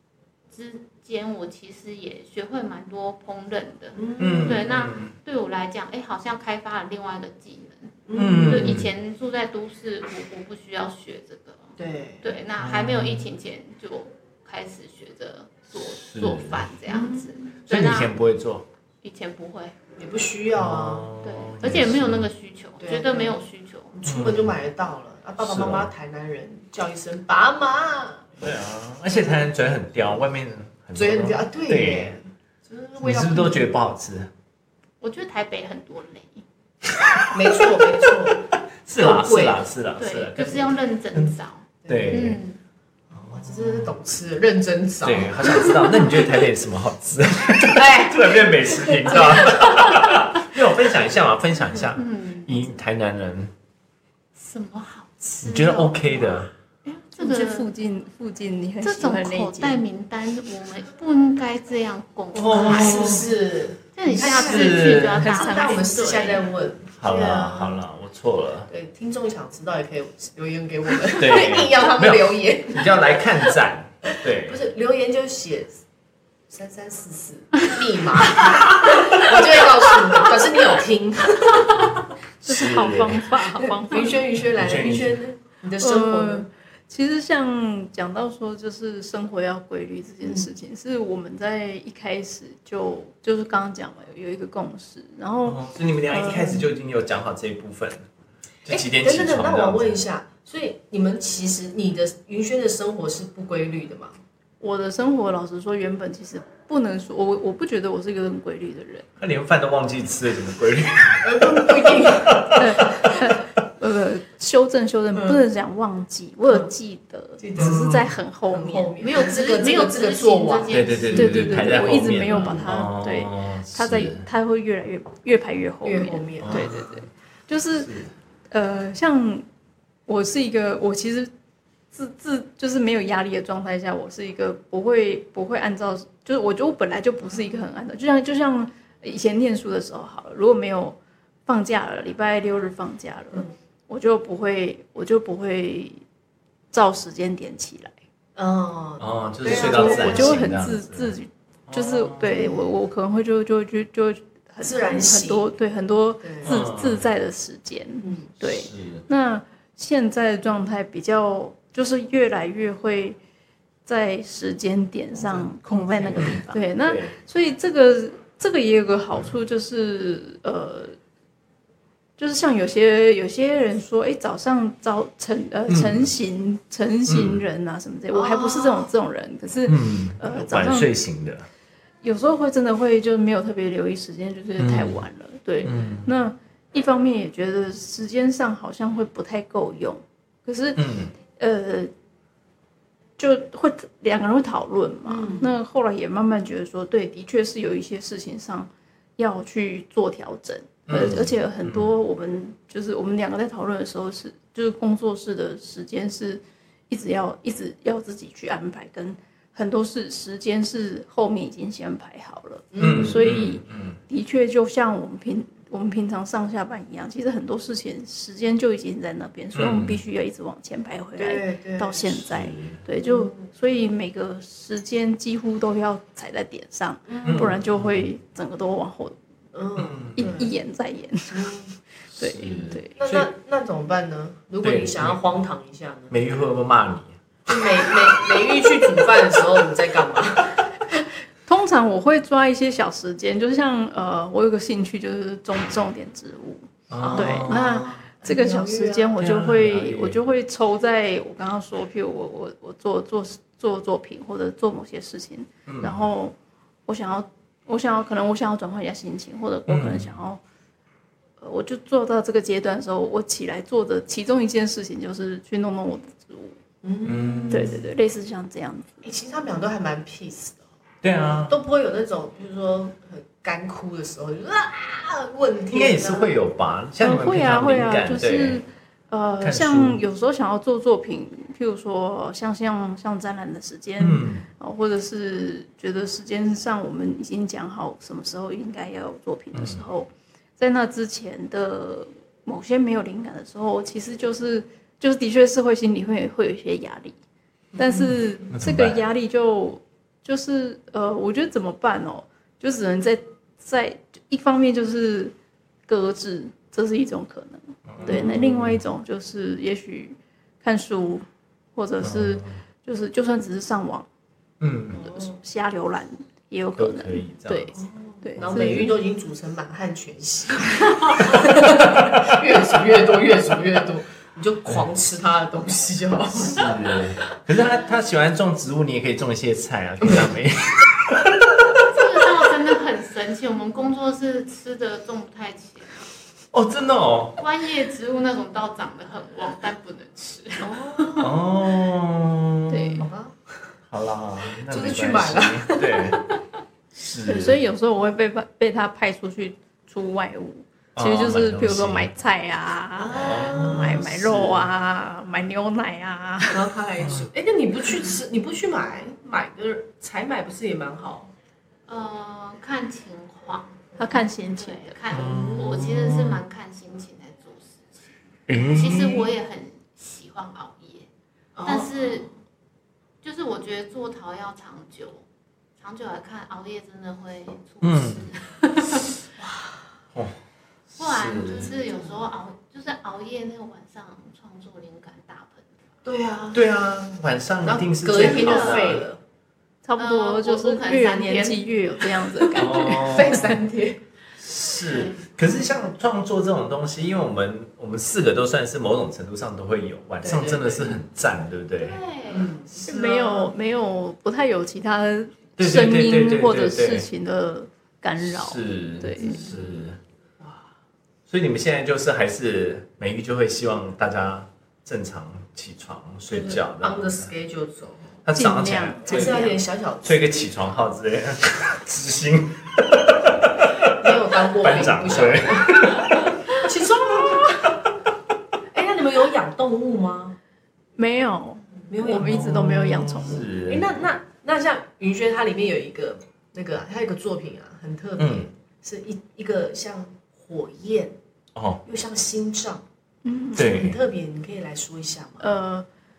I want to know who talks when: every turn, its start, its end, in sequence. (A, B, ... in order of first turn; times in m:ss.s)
0:00.5-0:18.1 A
0:03.9-0:04.6 B
0:04.2-0:05.1 C
0:08.1-0:08.8 B
0:08.1-0:08.9 C
0:11.8-0:12.2 B
0:12.6-0:13.3 C
0:15.8-0:16.7 C
0:16.9-0:17.3 B
0:17.7-0:18.7 C
0:19.0-0:19.8 A
0:20.0-0:21.1 B
0:20.5-0:22.3 C
0:21.2-0:23.9 A
0:22.8-0:23.4 B
0:23.9-0:28.3 B
0:24.0-0:24.5 C
0:25.4-0:25.9 C
0:28.4-0:32.1 C
0:30.9-0:33.7 B
0:33.0-0:34.3 C
0:35.0-0:36.4 A
0:37.3-0:39.6 B
0:38.8-0:41.3 C
0:40.0-0:42.6 A
0:41.8-0:42.4 B
0:41.9-0:42.4 C
0:43.1-0:46.3 B
0:43.5-0:43.9 C
0:45.0-0:53.5 C
0:47.7-0:49.8 B
0:51.9-0:52.6 A
0:54.4-0:57.7 A
0:55.4-0:56.5 C
0:57.2-0:59.8 D
0:58.8-1:03.3 A
1:02.3-1:03.2 C
1:02.6-1:07.8 B
1:03.9-1:06.5 A
1:04.2-1:05.2 C
1:05.2-1:06.1 D
1:07.0-1:08.7 C
1:08.7-1:13.1 B
1:11.2-1:14.6 C
1:14.2-1:15.8 B
1:16.5-1:22.0 B
1:22.4-1:23.2 C
1:22.4-1:24.2 D
1:23.6-1:26.5 B
1:24.4-1:25.2 C
1:25.8-1:36.6 D
1:30.2-1:30.5 B
1:35.4-1:38.0 C
1:38.6-1:40.0 C
1:38.7-1:44.2 B
1:44.6-1:49.1 D
1:49.2-1:53.1 C
1:51.2-1:52.8 B
1:52.5-1:58.9 D
1:57.4-1:57.8 B
1:57.6-1:58.1 C
1:58.5-2:02.7 B
1:59.0-2:01.6 A
2:00.7-2:04.2 C
2:01.1-2:07.9 D
2:05.8-2:06.8 B
2:06.4-2:06.9 C
2:07.8-2:08.1 C
2:08.5-2:09.4 D
2:10.1-2:11.3 D
2:11.9-2:26.0 D
2:26.7-2:27.9 D
2:28.4-2:30.4 B
2:29.0-2:31.1 C
2:29.4-2:43.2 D
2:31.7-2:32.3 C
2:32.2-2:32.7 B
2:34.6-2:35.5 B
2:36.2-2:36.5 B
2:36.4-2:37.0 C
2:38.0-2:38.3 B
2:38.4-2:39.0 C
2:43.8-2:51.0 D
2:45.2-2:46.5 B
2:46.1-2:47.1 C
2:52.2-3:00.9 D
2:55.7-2:56.1 C
2:57.1-2:57.4 C
2:58.1-2:58.9 B
2:59.6-3:01.5 C
3:02.0-3:11.9 D
3:04.6-3:05.0 C
3:05.6-3:06.1 C
3:10.8-3:11.1 C
3:13.2-3:49.2 D
3:15.0-3:15.5 B
3:20.9-3:21.8 C
3:32.7-3:33.2 B
3:32.8-3:34.0 C
3:39.5-3:40.0 C
3:41.2-3:42.2 B
3:42.1-3:42.8 C
3:43.0-3:43.5 B
3:47.1-3:47.5 B
3:47.2-3:48.0 C
3:49.5-3:50.5 B
3:49.8-3:50.3 C
3:50.1-3:51.6 D
3:51.3-3:51.7 B
3:52.1-3:53.3 C
3:52.2-3:52.9 D
3:53.0-3:56.4 B
3:54.6-3:55.2 C
3:56.1-3:57.1 C
3:57.4-4:00.6 B
4:01.4-4:16.3 D
4:06.9-4:08.0 C
4:07.0-4:09.3 B
4:09.2-4:10.2 C
4:15.6-4:16.0 C
4:16.9-4:20.4 D
4:19.7-4:20.1 C
4:21.4-4:26.6 D
4:26.8-4:27.8 B
4:27.0-4:27.8 C
4:27.5-4:29.0 D
4:29.0-4:30.6 B
4:31.0-4:31.6 C
4:31.5-4:36.3 B
4:35.7-4:38.6 C
4:37.0-4:57.2 D
4:39.4-4:40.0 C
4:44.0-4:44.4 C
4:49.5-4:49.8 C
4:57.7-4:58.1 B
4:57.8-5:05.3 D
4:58.5-4:59.0 C
5:05.9-5:14.1 D
5:07.9-5:08.8 C
5:08.0-5:08.5 B
5:12.0-5:12.6 C
5:14.6-5:15.1 C
5:14.9-5:15.4 B
5:15.0-5:18.9 D
5:16.8-5:17.8 C
5:17.7-5:26.9 B
5:18.4-5:18.9 C
5:26.4-5:31.8 C
5:31.8-5:36.0 A
5:36.5-5:37.4 C
5:37.4-5:41.0 A
5:40.6-5:41.4 B
5:41.2-5:43.0 C
5:42.7-5:43.0 D
5:43.0-5:43.4 B
5:43.9-5:46.2 C
5:44.7-5:46.3 B
5:46.9-5:47.6 C
5:47.2-5:56.7 D
5:50.9-5:52.1 C
5:53.0-5:54.1 B
5:53.1-5:54.7 C
5:56.5-6:01.3 B
5:57.0-5:57.3 C
6:01.9-6:03.8 A
6:04.0-6:05.0 D
6:04.6-6:08.0 A
6:05.1-6:06.4 C
6:05.1-6:05.8 B
6:08.5-6:09.2 C
6:08.7-6:11.1 A
6:11.6-6:12.3 B
6:11.6-6:12.3 A
6:13.2-6:15.2 A
6:15.8-6:19.1 A
6:17.8-6:18.3 C
6:19.4-6:19.9 B
6:20.9-6:21.7 C
6:21.0-6:25.7 A
6:21.6-6:22.2 B
6:26.0-6:26.6 B
6:26.5-6:29.1 C
6:27.6-6:29.2 B
6:28.1-6:29.0 A
6:29.8-6:33.6 D
6:30.0-6:31.7 A
6:32.4-6:34.0 B
6:32.5-6:33.6 C
6:34.4-6:42.0 C
6:40.2-6:41.0 B
6:41.8-6:42.5 A
6:42.3-6:43.5 B
6:42.8-6:49.4 D
6:45.6-6:47.1 C
6:48.2-6:50.0 C
6:49.2-6:49.6 B
6:51.3-6:57.3 C
6:56.3-6:58.2 B
6:58.2-7:06.3 C
6:58.3-6:59.6 D
6:59.0-7:00.3 B
7:03.8-7:07.8 B
7:08.7-7:10.4 B
7:11.0-7:13.4 D
7:11.9-7:12.7 B
7:12.1-7:14.0 C
7:13.6-7:21.2 B
7:18.2-7:18.5 C
7:21.5-7:21.8 C
7:21.8-7:22.8 B
7:23.2-7:23.7 D
7:23.6-7:24.0 C
7:23.6-7:25.5 B
7:25.4-7:25.8 D